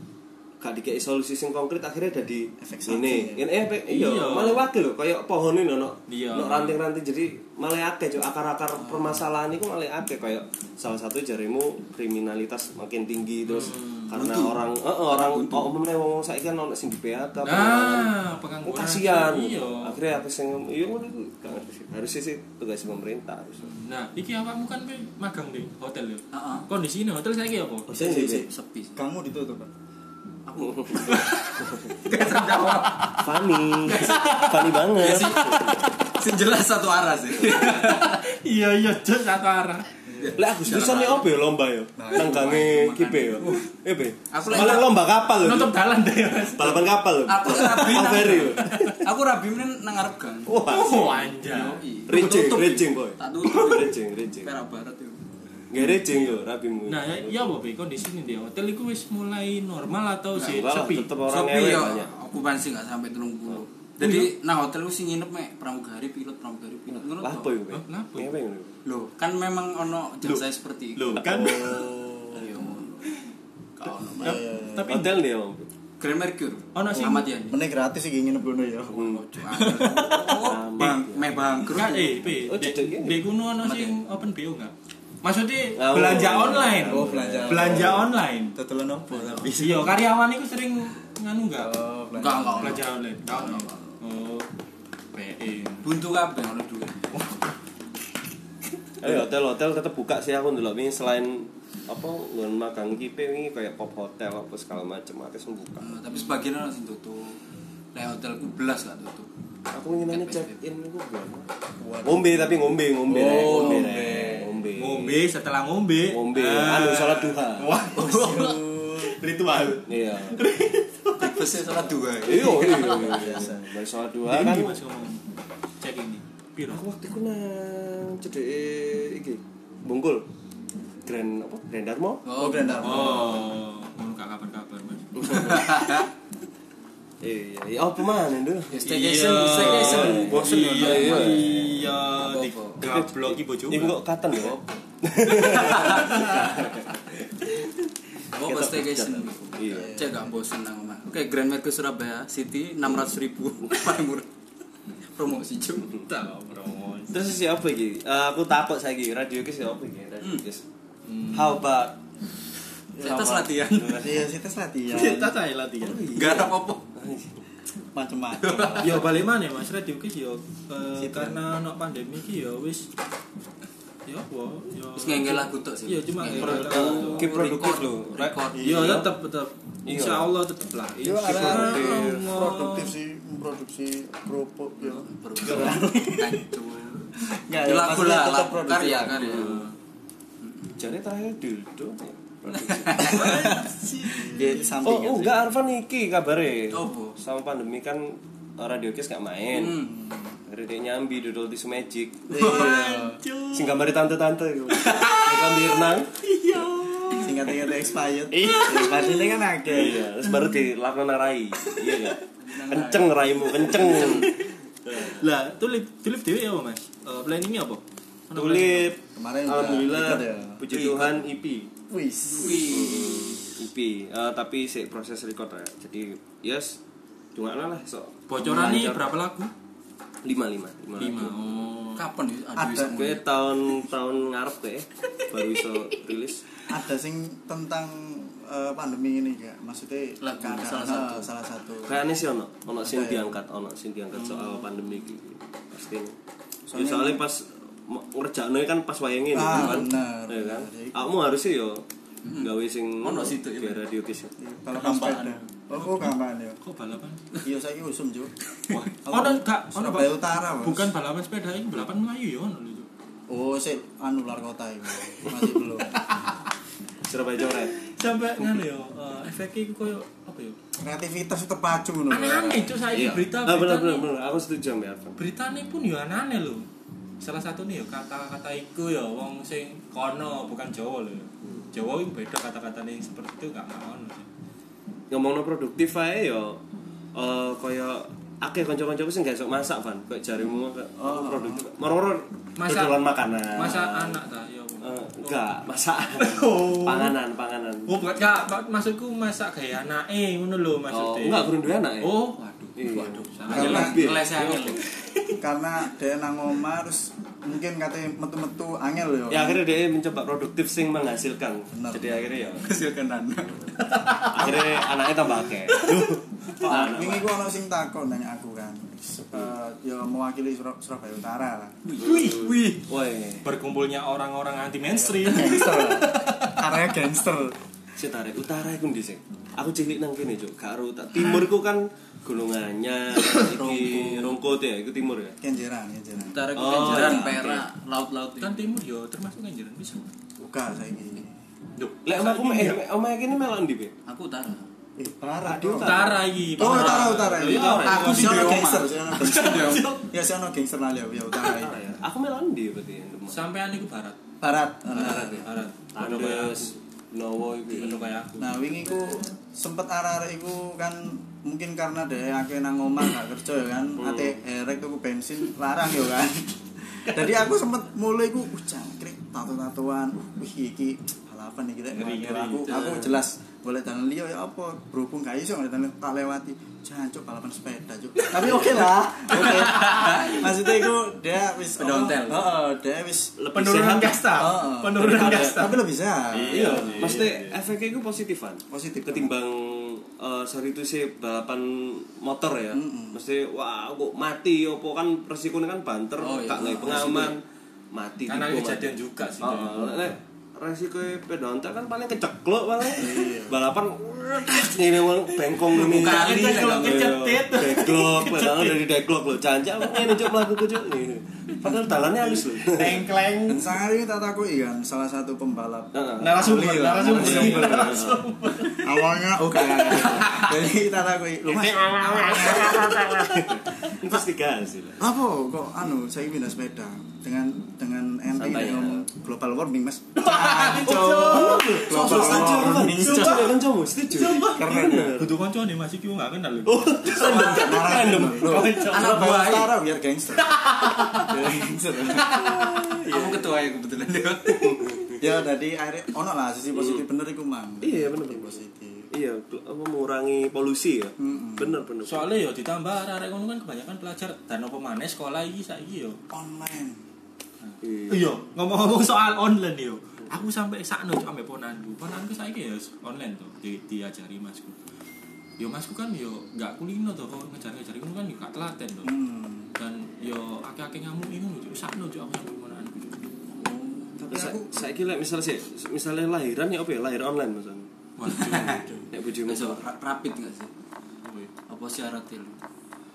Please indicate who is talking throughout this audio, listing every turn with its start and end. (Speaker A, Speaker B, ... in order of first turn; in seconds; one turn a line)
Speaker A: 0.6-18.1
Speaker B: 2.6-3.4
Speaker C: 3.9-4.7
Speaker C: 6.1-6.8
Speaker B: 8.8-9.2
Speaker C: 13.4-14.1
Speaker D: 14.1-15.7
Speaker C: 17.4-20.0
Speaker A: 18.6-23.7
Speaker C: 23.6-27.9
Speaker D: 26.3-26.7
Speaker B: 27.9-29.7
Speaker A: 27.9-28.4
Speaker D: 28.4-28.9
Speaker D: 30.5-38.2
Speaker A: 30.6-31.9
Speaker C: 31.1-33.0
Speaker A: 33.1-35.9
Speaker C: 37.5-39.9
Speaker B: 40.1-40.4
Speaker D: 40.1-41.3
Speaker A: 40.3-45.8
Speaker B: 42.0-42.9
Speaker D: 42.1-43.6
Speaker D: 44.3-44.9
Speaker C: 44.5-44.8
Speaker C: 45.4-47.0
Speaker A: 46.5-49.0
Speaker D: 47.3-55.3
Speaker C: 47.5-49.0
Speaker A: 50.5-51.2
Speaker C: 50.6-52.8
Speaker A: 52.1-54.5
Speaker A: 55.7-57.5
Speaker C: 56.9-61.1
Speaker A: 60.4-62.1
Speaker D: 61.3-67.5
Speaker C: 64.0-64.3
Speaker A: 66.9-68.8
Speaker C: 67.7-68.3
Speaker D: 68.8-71.2
Speaker C: 71.0-71.8
Speaker A: 71.1-71.8
Speaker B: 71.2-72.7
Speaker D: 72.3-73.0
Speaker D: 73.8-74.4
Speaker B: 74.1-75.0
Speaker C: 74.2-75.1
Speaker A: 74.9-75.7
Speaker D: 76.0-77.6
Speaker C: 76.7-77.3
Speaker B: 77.5-81.8
Speaker A: 78.9-79.2
Speaker D: 78.9-82.2
Speaker A: 80.0-81.2
Speaker C: 81.7-88.5
Speaker A: 82.2-83.2
Speaker D: 83.6-84.0
Speaker A: 85.8-88.0
Speaker B: 86.8-90.0
Speaker D: 89.1-89.5
Speaker C: 89.6-91.7
Speaker B: 91.6-92.8
Speaker D: 92.2-94.0
Speaker C: 92.6-94.5
Speaker C: 95.1-95.8
Speaker D: 95.8-97.2
Speaker C: 97.1-97.5
Speaker A: 99.0-105.9
Speaker D: 105.8-107.4
Speaker D: 107.9-109.3
Speaker A: 109.7-111.5
Speaker D: 110.1-110.6
Speaker B: 111.8-114.5
Speaker A: 112.0-115.2
Speaker D: 113.1-114.4
Speaker C: 113.1-113.8
Speaker C: 114.8-121.6
Speaker A: 116.1-117.7
Speaker B: 117.9-119.2
Speaker A: 119.8-120.4
Speaker D: 121.2-123.3
Speaker A: 122.2-124.8
Speaker B: 122.9-123.7
Speaker C: 124.2-125.2
Speaker C: 125.8-126.8
Speaker A: 126.7-130.2
Speaker A: 131.1-132.2
Speaker D: 132.2-133.3
Speaker B: 132.4-133.4
Speaker C: 132.8-135.8
Speaker A: 135.1-136.0
Speaker D: 135.4-136.1
Speaker A: 137.2-141.9
Speaker D: 138.7-141.6
Speaker C: 138.8-144.0
Speaker D: 142.1-142.8
Speaker A: 142.8-147.6
Speaker D: 144.4-146.3
Speaker C: 145.5-146.5
Speaker D: 148.3-154.3
Speaker A: 148.4-150.0
Speaker B: 149.7-150.4
Speaker D: 155.2-155.9
Speaker C: 156.0-157.2
Speaker A: 157.1-160.6
Speaker C: 161.1-161.6
Speaker A: 161.3-162.0
Speaker B: 162.9-163.4
Speaker A: 163.0-164.2
Speaker D: 163.0-164.2
Speaker B: 163.9-165.4
Speaker C: 164.9-166.0
Speaker A: 165.8-167.4
Speaker D: 166.1-166.8
Speaker B: 167.9-169.1
Speaker D: 168.4-169.0
Speaker C: 168.8-172.9
Speaker B: 170.9-171.4
Speaker C: 174.1-177.4
Speaker D: 174.9-178.9
Speaker A: 176.4-179.1
Speaker C: 178.6-182.9
Speaker A: 179.8-180.3
Speaker B: 181.0-186.5
Speaker A: 181.2-182.3
Speaker D: 184.8-189.7
Speaker B: 187.2-189.6
Speaker A: 189.3-189.6
Speaker D: 190.4-190.8
Speaker A: 190.8-193.6
Speaker D: 192.5-193.6
Speaker B: 192.9-195.5
Speaker C: 193.1-193.7
Speaker A: 194.4-199.9
Speaker D: 196.7-197.2
Speaker D: 199.5-199.9
Speaker B: 199.8-200.4
Speaker A: 200.4-202.6
Speaker B: 202.3-203.2
Speaker C: 202.3-204.0
Speaker A: 203.5-206.1
Speaker C: 204.7-209.4
Speaker B: 207.2-210.3
Speaker A: 209.7-215.2
Speaker D: 212.4-214.1
Speaker C: 213.7-214.3
Speaker C: 215.0-218.9
Speaker A: 218.3-221.7
Speaker B: 219.1-220.9
Speaker B: 221.9-222.9
Speaker D: 222.3-223.4
Speaker A: 222.6-226.8
Speaker A: 227.3-229.1
Speaker C: 228.3-229.5
Speaker A: 230.2-231.4
Speaker C: 231.0-232.0
Speaker D: 231.9-233.3
Speaker B: 232.5-233.0
Speaker A: 232.8-236.4
Speaker B: 236.7-242.0
Speaker D: 240.2-241.3
Speaker A: 241.8-246.2
Speaker B: 242.8-243.3
Speaker C: 244.1-244.7
Speaker B: 246.7-247.2
Speaker A: 246.7-251.8
Speaker B: 249.3-251.1
Speaker D: 252.2-253.8
Speaker A: 252.4-254.3
Speaker B: 254.4-256.6
Speaker D: 254.8-255.3
Speaker C: 255.8-256.1
Speaker C: 256.6-257.2
Speaker B: 257.4-258.3
Speaker C: 258.7-262.9
Speaker B: 259.0-260.9
Speaker B: 263.3-266.1
Speaker A: 267.1-267.8
Speaker C: 267.8-270.6
Speaker B: 270.8-272.8
Speaker C: 272.1-274.1
Speaker A: 272.9-275.2
Speaker C: 275.2-276.6
Speaker C: 277.2-284.3
Speaker A: 285.1-286.6
Speaker A: 287.1-294.2
Speaker B: 291.0-291.7
Speaker C: 292.6-295.4
Speaker A: 294.8-297.9
Speaker C: 296.1-297.2
Speaker C: 297.9-305.4
Speaker A: 300.9-302.1
Speaker A: 302.8-304.7
Speaker D: 302.9-304.8
Speaker B: 303.5-304.0
Speaker B: 305.4-309.6
Speaker A: 309.3-312.7
Speaker B: 311.7-312.3
Speaker D: 312.6-314.3
Speaker B: 312.8-313.7
Speaker C: 314.1-314.5
Speaker A: 314.3-317.3
Speaker B: 316.6-321.8
Speaker D: 321.8-322.8
Speaker C: 322.0-322.8
Speaker A: 322.0-323.4
Speaker C: 323.4-326.8
Speaker B: 324.9-327.6
Speaker A: 328.0-335.4
Speaker B: 333.4-334.4
Speaker B: 335.4-336.5
Speaker D: 336.3-338.6
Speaker A: 336.5-337.6
Speaker C: 338.4-340.1
Speaker B: 340.4-341.4
Speaker C: 341.8-342.8
Speaker A: 342.0-343.9
Speaker D: 344.1-344.6
Speaker B: 345.0-351.8
Speaker A: 345.4-348.3
Speaker C: 345.8-350.1
Speaker D: 347.8-350.0
Speaker A: 351.5-353.4
Speaker C: 353.3-354.2
Speaker B: 354.4-355.4
Speaker C: 354.9-356.7
Speaker A: 354.9-358.1
Speaker C: 357.7-358.6
Speaker B: 358.4-383.3
Speaker A: 364.0-364.4
Speaker C: 371.9-372.8
Speaker D: 372.6-373.2
Speaker C: 378.2-378.6
Speaker D: 379.6-380.4
Speaker D: 381.8-382.5
Speaker A: 383.4-385.6
Speaker C: 383.5-387.6
Speaker B: 384.4-386.9
Speaker A: 386.5-397.4
Speaker D: 386.8-387.1
Speaker B: 388.7-389.3
Speaker B: 392.7-393.2
Speaker D: 396.2-397.3
Speaker A: 397.9-413.1
Speaker C: 398.3-400.1
Speaker B: 402.9-403.6
Speaker C: 405.7-408.9
Speaker D: 405.7-407.2
Speaker C: 412.6-413.7
Speaker B: 413.5-418.0
Speaker A: 415.9-418.2
Speaker C: 416.2-419.0
Speaker B: 418.8-423.1
Speaker A: 421.5-425.1
Speaker C: 422.1-423.5
Speaker B: 425.0-433.6
Speaker A: 428.3-429.1
Speaker C: 430.2-433.5
Speaker A: 430.5-435.3
Speaker C: 434.1-439.0
Speaker B: 434.4-435.2
Speaker A: 436.6-438.9
Speaker B: 437.1-440.5
Speaker D: 438.9-439.7
Speaker D: 440.8-441.1
Speaker C: 440.8-441.2
Speaker B: 441.2-442.8
Speaker A: 442.7-442.9
Speaker D: 443.1-444.8
Speaker A: 444.6-445.2
Speaker B: 445.2-449.1
Speaker A: 446.7-447.0
Speaker A: 447.8-448.6
Speaker A: 449.1-452.3
Speaker B: 451.2-451.8
Speaker C: 452.1-456.2
Speaker B: 456.3-457.0
Speaker C: 457.6-464.8
Speaker A: 457.8-458.2
Speaker C: 465.6-469.1
Speaker B: 469.0-469.7
Speaker C: 469.8-473.2
Speaker D: 473.6-474.1
Speaker A: 474.2-477.9
Speaker B: 474.3-474.9
Speaker C: 478.2-478.9
Speaker D: 478.3-478.8
Speaker B: 478.6-479.1
Speaker A: 479.1-479.8
Speaker D: 479.4-480.7
Speaker C: 481.2-481.5
Speaker D: 481.7-482.6